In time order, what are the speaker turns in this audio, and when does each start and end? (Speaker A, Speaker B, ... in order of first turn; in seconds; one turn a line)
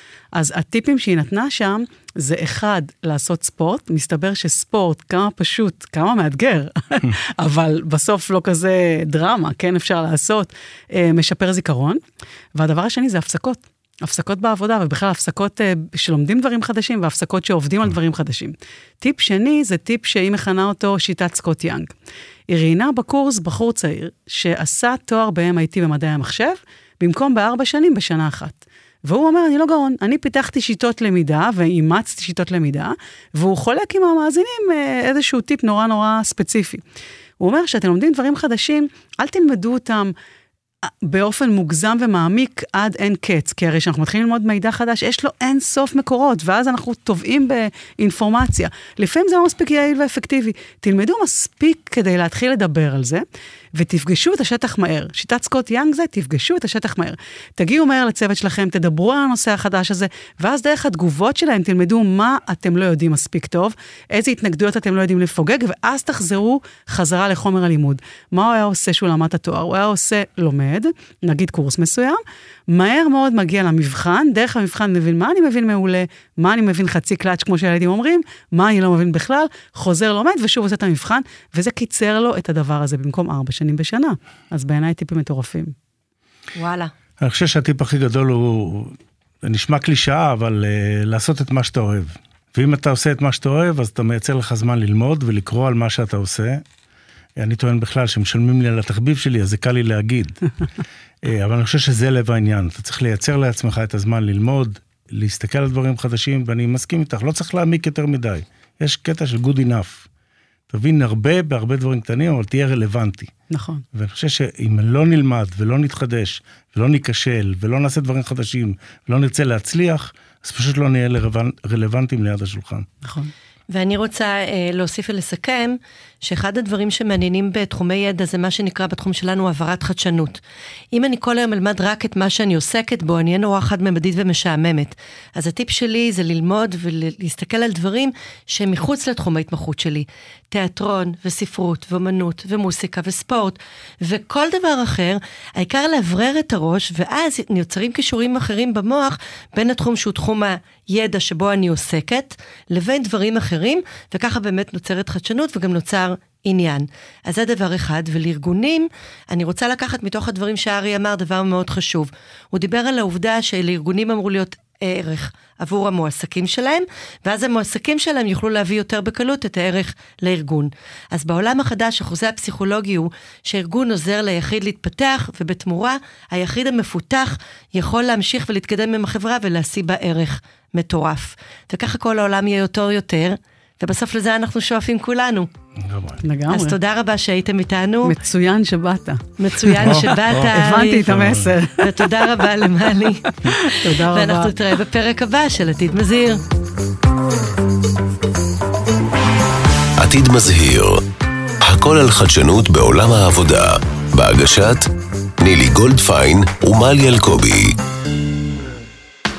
Speaker A: 0.3-12.0
Speaker A: 12.5-21.9
Speaker A: 22.5-36.8
Speaker A: 37.4-40.1
Speaker A: 41.0-53.2
Speaker A: 53.7-85.7
Speaker B: 86.5-86.9
Speaker C: 87.2-96.6
Speaker C: 97.4-100.4
Speaker C: 101.2-110.1
Speaker C: 110.7-113.3
Speaker A: 113.5-113.8
Speaker C: 113.9-122.9
Speaker A: 123.0-123.3
Speaker B: 123.7-130.4
Speaker B: 130.9-185.5
Speaker C: 185.8-186.2
Speaker A: 186.2-186.8
Speaker B: 186.5-188.1
Speaker A: 188.0-192.5
Speaker B: 189.4-191.0
Speaker C: 189.8-191.5
Speaker B: 191.8-196.4
Speaker A: 193.4-194.5
Speaker D: 200.0-201.0
Speaker D: 201.6-207.8